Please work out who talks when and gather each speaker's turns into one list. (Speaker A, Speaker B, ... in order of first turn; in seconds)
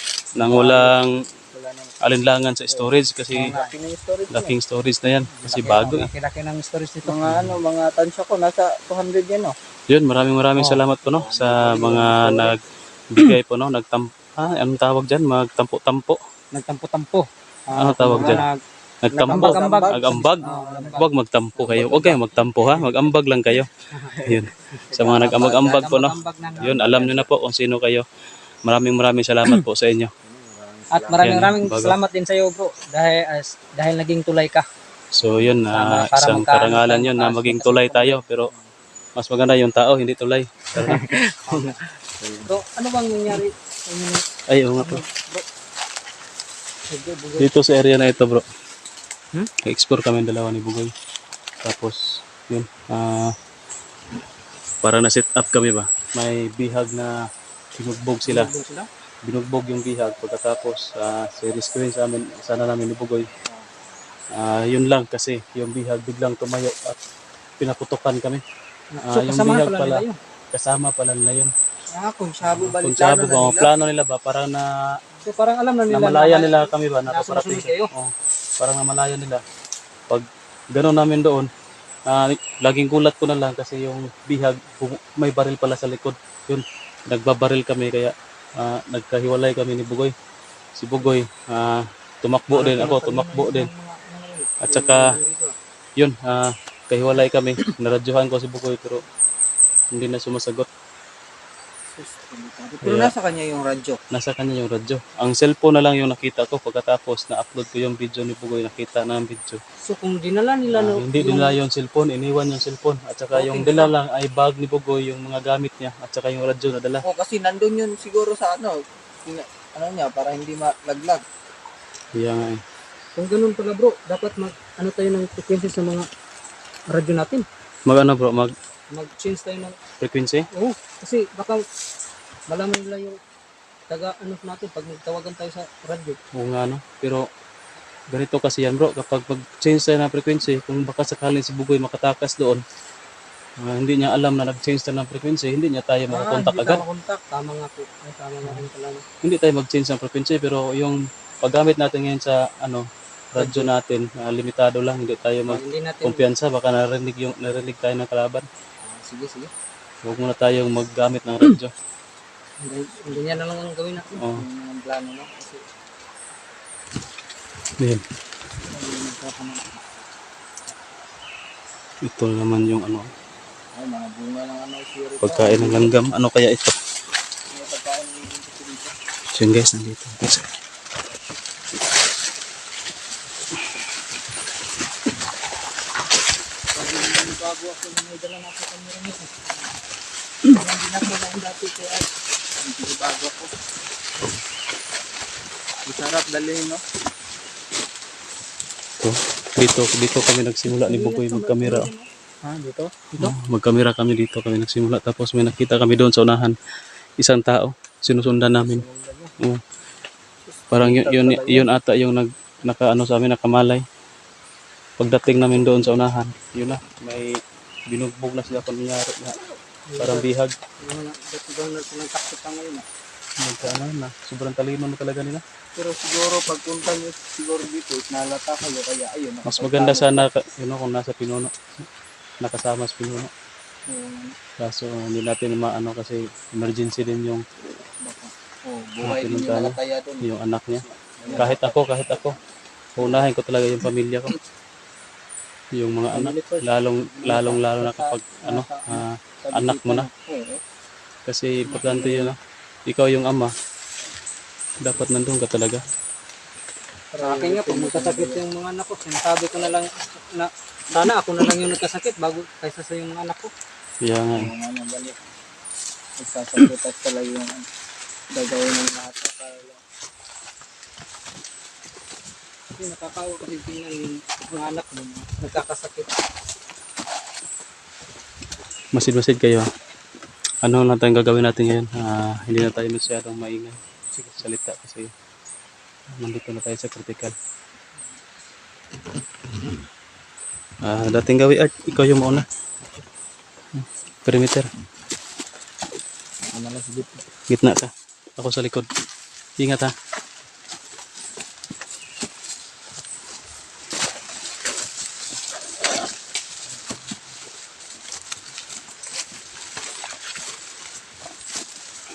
Speaker A: 0.3-1.0, 1.5-1.9, 2.7-4.6, 5.3-6.0, 7.0-9.5, 11.0-12.5, 18.1-18.4, 19.2-21.0, 21.6-22.9, 24.1-27.3, 30.2-31.5, 40.8-42.5, 71.9-73.7, 101.9-104.0, 113.3-113.9, 117.0-121.2, 146.1-147.2, 158.8-159.5, 164.3-165.6, 168.7-170.0, 173.7-175.9, 177.5-178.9, 186.8-188.4, 190.4-193.5, 195.8-196.8, 200.8-201.9, 202.4-203.0, 208.5-209.3, 210.5-211.7, 225.7-230.3, 233.9-234.3, 238.0-241.7, 246.1-250.6, 251.6-252.3, 257.2-258.4, 264.3-265.2, 266.2-267.7, 268.3-269.8, 274.9-275.3, 296.5-297.2
Speaker B: 0.4-1.2, 2.0-3.5, 4.3-6.1, 9.9-12.6, 13.1-16.2, 17.8-18.5, 19.0-23.7, 24.2-28.1, 28.6-30.1, 31.2-32.0, 35.1-38.5, 39.1-41.0, 44.5-45.0, 47.4-48.4, 49.6-50.9, 51.6-53.4, 54.8-57.2, 57.7-58.5, 59.2-63.3, 64.3-67.0, 67.6-68.4, 69.1-71.5, 72.4-74.7, 75.9-79.4, 80.1-81.5, 82.0-90.1, 90.8-93.7, 94.6-95.1, 96.0-99.0, 99.9-100.7, 102.8-103.1, 104.1-109.6, 110.7-117.0, 122.1-122.6, 127.8-128.5, 130.0-130.5, 136.3-137.3, 138.1-142.6, 143.6-146.8, 149.2-158.5, 160.0-161.7, 164.2-164.4, 172.0-173.1, 175.2-176.8, 179.3-180.5, 199.0-201.9, 203.2-206.6, 207.2-208.8, 210.7-213.8, 215.0-219.4, 220.0-220.5, 223.4-225.4, 229.4-231.9, 232.4-233.3, 234.6-237.4, 239.0-242.3, 242.9-244.4, 245.7-250.1, 251.2-253.5, 254.8-255.8, 264.0-264.5, 278.9-279.7, 280.6-283.8, 284.4-285.1, 286.2-287.3, 290.8-292.4, 293.7-294.7, 297.5-298.9, 299.6-299.9
Speaker C: 3.3-3.7, 5.5-7.5, 16.5-18.6, 19.1-22.2, 25.6-27.0, 30.9-34.6, 35.7-38.2, 40.8-41.8, 42.4-44.2, 44.8-45.5, 46.9-47.5, 58.2-58.9, 68.9-70.2, 75.2-77.9, 92.5-95.5, 109.8-111.5, 123.2-126.1, 126.9-127.5, 128.9-129.8, 130.5-131.6, 132.5-133.2, 133.9-136.2, 147.3-149.0, 155.5-156.2, 162.6-164.2, 187.1-189.3, 200.8-201.9, 219.9-220.3, 220.8-222.8, 257.1-263.5, 272.8-276.1